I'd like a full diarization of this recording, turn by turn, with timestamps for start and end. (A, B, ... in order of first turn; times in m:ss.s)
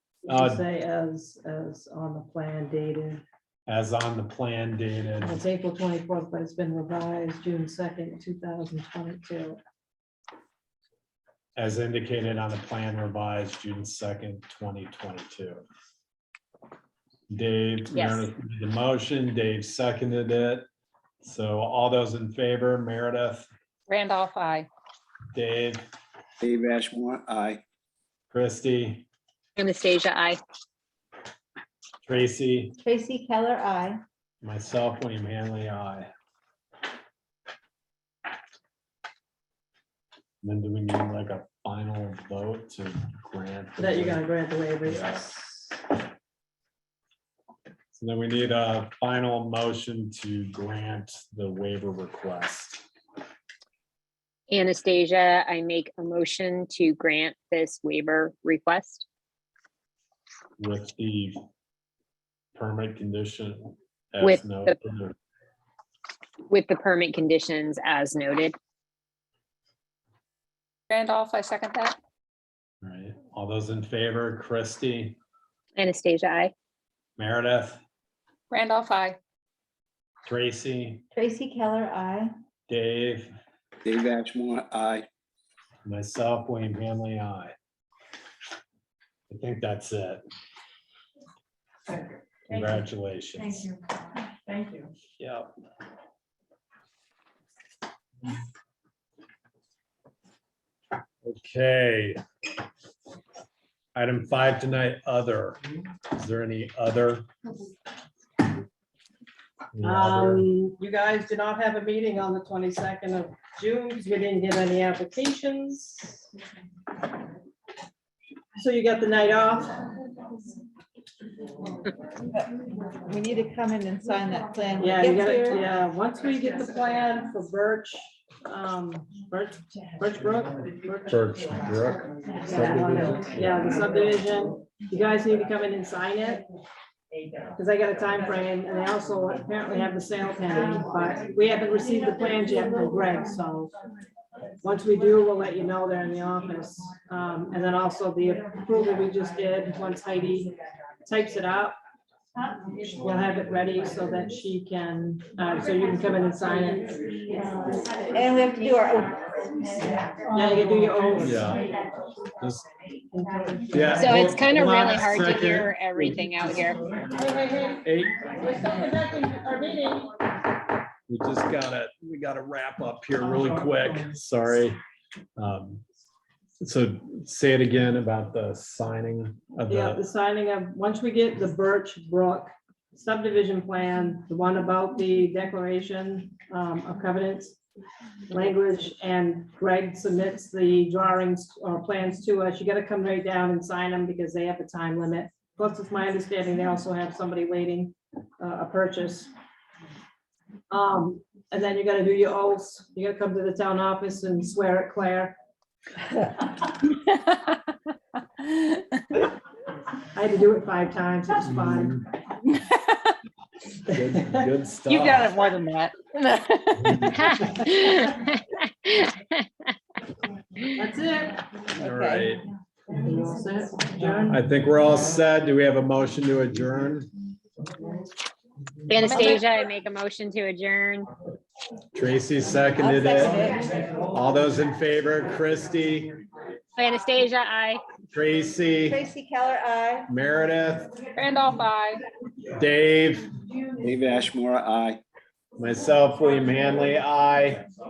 0:00.2-0:03.2 A
0:00.3-0:00.6 B
0:03.7-0:05.4 B
0:05.2-0:09.6 A
0:11.6-0:15.6 B
0:17.3-0:20.6 B
0:17.9-0:18.3 C
0:21.2-0:23.5 B
0:23.9-0:24.7 D
0:25.3-0:25.8 B
0:26.4-0:27.6 E
0:28.3-0:29.1 B
0:29.6-0:30.4 C
0:32.0-0:32.8 B
0:32.9-0:34.0 F
0:34.4-0:36.1 B
0:40.4-0:44.2 B
0:43.8-0:45.7 A
0:44.8-0:45.3 B
0:47.9-0:52.8 B
0:54.5-0:59.0 C
1:00.6-1:01.4 B
1:02.6-1:05.1 B
1:04.2-1:04.8 C
1:06.5-1:08.6 C
1:10.9-1:12.0 D
1:12.8-1:15.2 B
1:15.7-1:16.5 C
1:17.2-1:17.8 B
1:18.5-1:19.2 D
1:20.2-1:21.0 B
1:21.2-1:22.3 F
1:22.7-1:23.3 B
1:23.8-1:25.0 E
1:25.8-1:27.5 B
1:29.3-1:30.2 B
1:32.5-1:33.7 B
1:35.2-1:35.5 B
1:41.2-1:42.2 B
1:43.9-1:45.6 B
1:46.1-1:47.2 B
1:49.7-1:50.5 B
1:49.8-1:56.2 A
1:58.6-1:59.8 A
2:03.1-2:05.6 F
2:04.8-2:11.2 A
2:11.1-2:13.6 B
2:12.5-2:16.4 A
2:17.6-2:23.7 A
2:24.6-2:30.5 A
2:31.1-2:31.8 A
2:32.9-2:36.9 A
2:38.2-2:39.2 F
2:40.3-2:41.5 A
2:41.2-2:41.7 B
2:42.4-2:42.7 B
2:43.1-2:43.9 A
2:43.7-2:46.1 B
2:44.0-2:46.8 C
2:47.2-2:47.8 A
2:47.8-2:48.2 B
2:48.4-2:50.1 A
2:51.1-2:54.8 B
2:55.4-2:55.8 B
2:56.6-3:00.0 B
2:59.7-3:07.6 A
3:08.3-3:19.3 A
3:20.7-3:25.3 A
3:30.1-3:32.0 A
3:33.9-3:35.3 B
3:37.3-3:38.9 C
3:40.8-3:41.4 A
3:41.8-3:42.4 B
3:43.0-3:44.4 A
3:44.3-3:47.1 B
3:48.9-3:51.1 C
3:49.0-3:49.5 D
3:51.9-3:53.5 B
3:52.8-3:53.6 F
3:54.1-3:56.1 B
3:56.8-3:57.8 C
3:58.1-3:59.0 B
3:58.9-4:00.1 F
4:00.1-4:00.9 B
4:01.2-4:02.0 D
4:02.6-4:03.2 B
4:03.8-4:05.0 E
4:05.6-4:07.6 B